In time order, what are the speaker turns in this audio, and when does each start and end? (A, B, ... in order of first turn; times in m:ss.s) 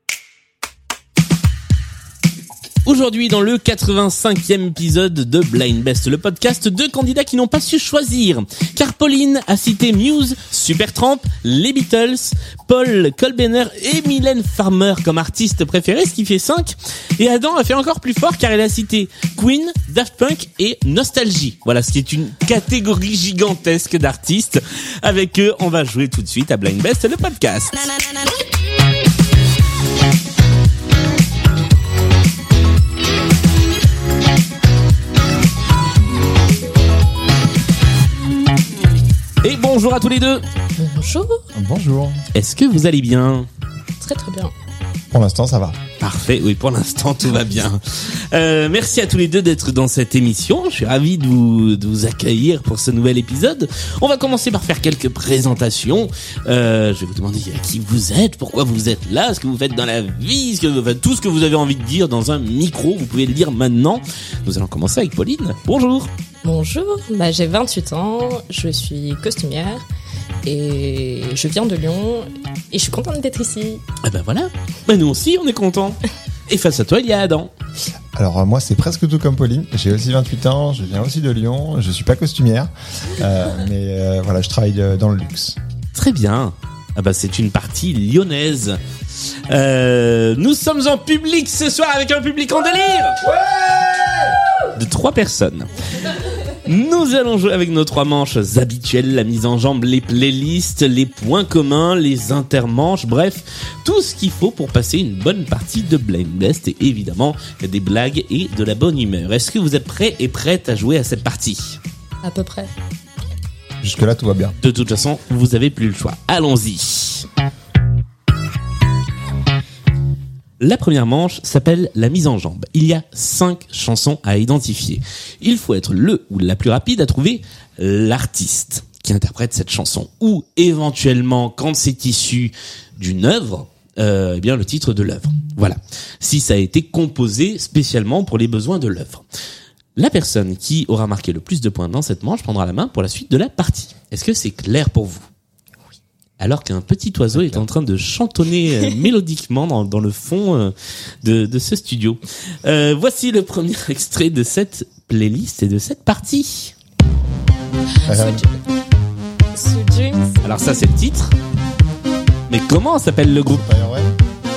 0:02.8-0:27.9 A
0:39.4-0:40.4 A
0:40.9-0:41.4 B
0:41.5-0:42.2 C
0:42.3-0:43.5 A
0:44.0-0:44.5 B
0:45.1-0:45.8 C
0:46.0-1:06.1 A
1:06.4-1:09.8 B
1:10.4-1:13.8 B
1:14.0-1:17.5 A
1:18.2-1:25.6 C
1:25.9-1:28.8 A
1:29.5-1:33.2 A
1:33.3-1:34.2 C
1:34.7-1:35.7 A
1:36.6-1:51.8 A
1:52.2-1:52.7 B
1:53.8-1:54.5 C
1:54.6-1:57.3 A
2:00.6-2:19.2 A
2:20.0-2:25.2 A
2:26.4-2:36.7 A
2:27.3-2:27.6 C
2:38.0-2:38.5 B
2:38.0-2:38.4 C
2:39.5-2:40.5 B
2:40.4-2:41.3 A
2:42.5-2:43.6 A
2:43.4-2:44.1 C